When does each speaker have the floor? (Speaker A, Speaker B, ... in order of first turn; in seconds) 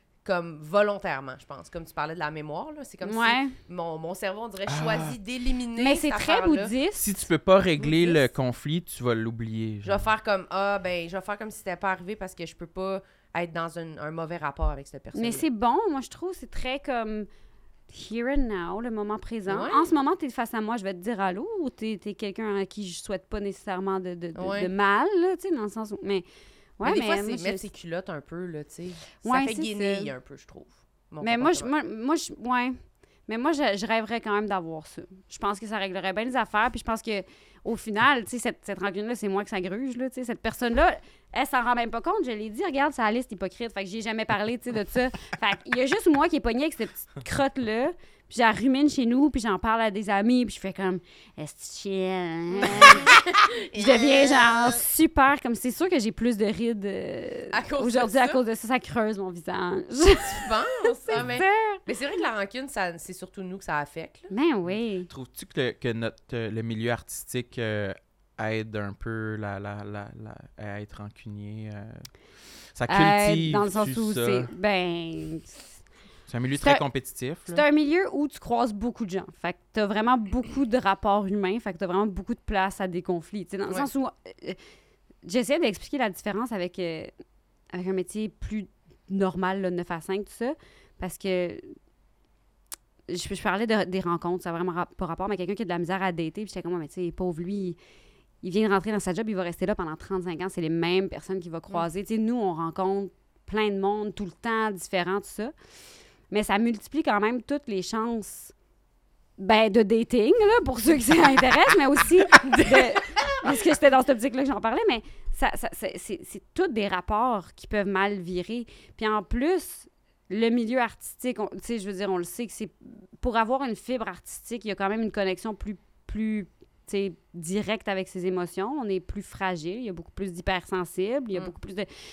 Speaker A: 0.2-6.7, 7.8-8.3, 9.8-15.5, 19.4-19.9, 24.4-24.7, 26.8-31.7, 52.6-54.8, 57.5-58.4, 60.2-64.3, 112.3-113.5
Speaker B: 3.0-3.6, 5.8-7.1, 15.1-17.3, 17.9-26.2, 26.8-27.7, 29.2-30.1, 31.2-32.8, 33.3-53.2, 53.7-61.8, 64.3-65.1, 72.9-75.6, 77.5-84.6, 85.2-87.1, 87.7-91.7, 93.1-97.8, 98.4-105.5, 106.3-108.5, 109.4-131.9
Speaker C: 4.7-5.1, 7.0-10.1, 64.7-72.1, 72.8-74.5, 76.3-77.6